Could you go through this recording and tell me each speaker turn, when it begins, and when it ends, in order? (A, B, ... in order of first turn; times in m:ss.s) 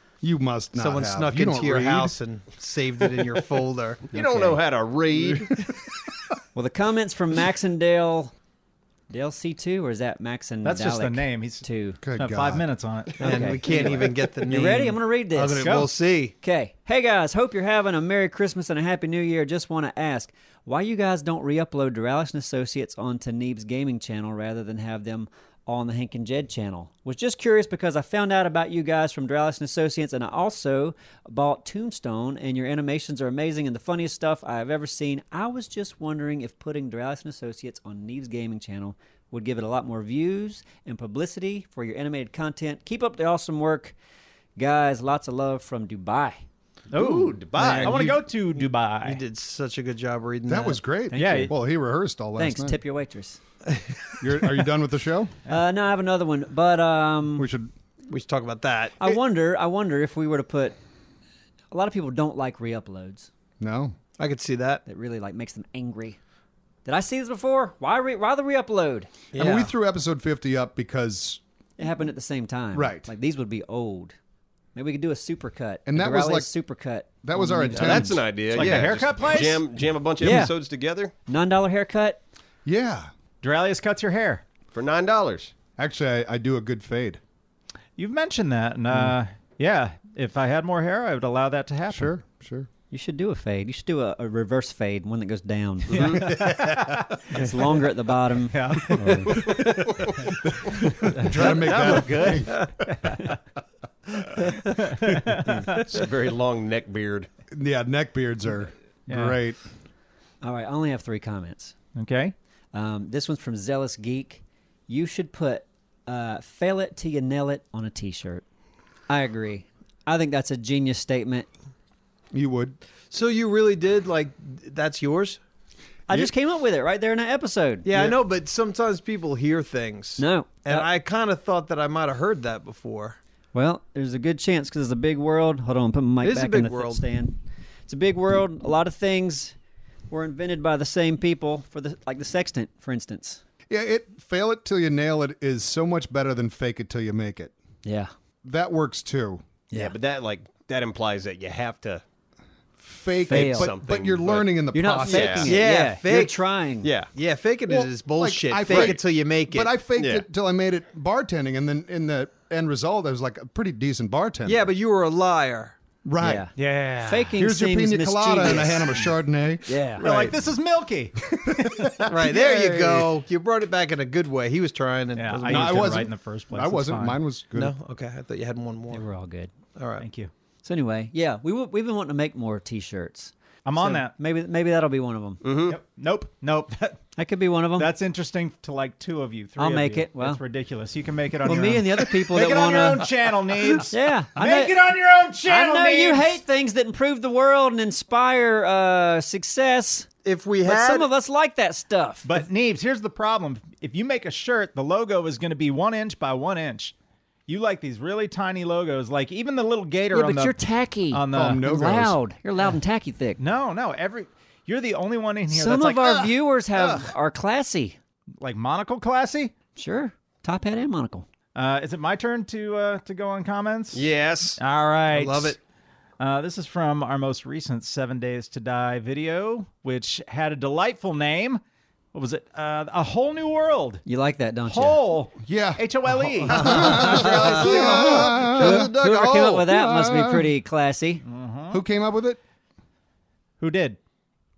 0:00.2-0:02.2 A
0:00.7-0:04.5 B
0:04.1-0:05.6 C
0:06.6-0:08.3 D
0:09.1-0:12.0 D
0:10.6-0:11.6 E
0:12.0-0:12.7 A
0:12.2-0:14.1 E
0:13.2-0:16.3 B
0:13.2-0:15.9 D
0:15.6-0:15.9 E
0:16.4-0:44.0 D
0:44.6-0:46.4 D
0:46.9-0:49.2 E
0:47.1-0:47.9 C
0:47.5-0:50.8 B
0:50.5-0:52.8 A
0:51.1-0:51.5 D
0:51.1-0:51.5 E
0:52.4-0:53.4 D
0:54.2-0:55.3 A
0:55.5-0:57.5 D
0:57.4-0:57.7 A
0:58.1-0:59.2 B
0:59.0-1:00.8 D
1:01.7-1:03.3 D
1:03.6-1:04.0 A
1:04.2-1:04.8 B
1:04.9-1:06.2 D
1:06.8-1:09.1 D
1:09.3-1:09.7 B
1:09.3-1:11.4 A
1:11.8-1:14.2 D
1:12.7-1:13.1 A
1:14.7-1:18.9 D
1:15.9-1:16.5 A
1:17.2-1:18.3 A
1:17.7-1:21.1 C
1:18.5-1:19.7 E
1:20.2-1:20.6 D
1:21.3-1:22.2 D
1:22.6-1:23.1 A
1:23.4-1:24.4 E
1:24.7-1:25.5 C
1:25.8-1:27.2 A
1:28.0-1:32.1 E
1:31.9-1:32.7 A
1:32.9-1:36.3 D
1:35.9-1:36.4 C
1:35.9-1:37.2 E
1:36.2-1:36.7 A
1:37.3-1:38.8 D
1:38.5-1:39.5 E
1:39.0-1:39.8 A
1:39.3-1:40.2 C
1:40.4-1:42.9 A
1:40.8-1:43.4 E
1:44.7-1:45.8 E
1:45.7-1:47.3 C
1:47.5-1:49.6 A
1:49.1-1:49.4 E
1:50.4-1:51.7 D
1:52.0-1:52.3 E
1:52.7-1:58.4 D
1:59.1-2:01.5 D
2:02.3-2:02.8 A
2:03.1-2:05.4 B
2:06.1-2:08.0 D
2:07.8-2:13.2 B
2:10.2-2:10.9 D
2:13.5-2:19.5 D
2:16.2-2:17.0 B
2:20.1-2:23.4 D
2:23.7-2:27.5 A
2:27.8-2:28.1 D
2:28.4-2:29.4 A
2:29.7-2:32.0 C
2:32.8-2:35.5 A
2:33.3-2:33.7 D
2:33.3-2:35.6 C
2:34.7-2:36.9 D
2:35.4-2:36.4 B
2:36.8-2:37.1 C
2:37.1-2:39.7 B
2:37.7-2:44.7 A
2:38.7-2:39.0 C
2:40.0-2:40.2 C
2:44.4-2:45.8 B
2:46.0-2:46.5 A
2:46.2-2:46.5 D
2:46.6-2:47.4 E
2:47.0-2:49.1 D
2:47.4-2:50.4 A
2:49.7-2:50.0 D
2:50.0-2:52.1 E
2:51.3-2:53.1 A
2:52.1-2:56.1 B
2:55.1-2:57.2 E
2:55.5-2:57.7 A
2:57.6-2:59.0 B
2:58.9-2:59.5 D
2:59.8-3:00.1 B
3:00.0-3:00.3 E
3:00.6-3:05.4 D
3:03.6-3:04.1 E
3:05.4-3:05.8 C
3:05.7-3:07.0 E
3:07.2-3:07.9 D
3:07.8-3:16.4 E
3:09.6-3:10.4 D
3:11.4-3:13.1 D
3:13.9-3:14.8 D
3:15.4-3:20.1 D
3:20.2-3:21.1 B
3:20.6-3:22.4 D
3:22.2-3:26.9 E
3:27.5-3:30.6 E
3:30.1-3:33.4 D
3:31.1-3:31.6 E
3:31.3-3:32.2 A
3:33.4-3:36.3 E
3:35.5-3:38.0 D
3:36.8-3:37.0 A
3:38.4-3:39.5 E
3:39.8-3:41.3 D
3:41.6-3:44.1 E
3:43.9-3:44.6 C
3:44.6-3:45.6 E
3:45.1-3:45.6 B
3:46.2-3:51.6 E
3:52.1-3:54.0 E
3:54.1-3:55.0 D
3:54.7-3:58.3 E
3:55.4-4:00.5 A
3:56.5-3:59.6 B
3:57.6-4:01.2 D
4:01.3-4:01.8 E
4:01.7-4:02.4 A
4:03.6-4:04.0 E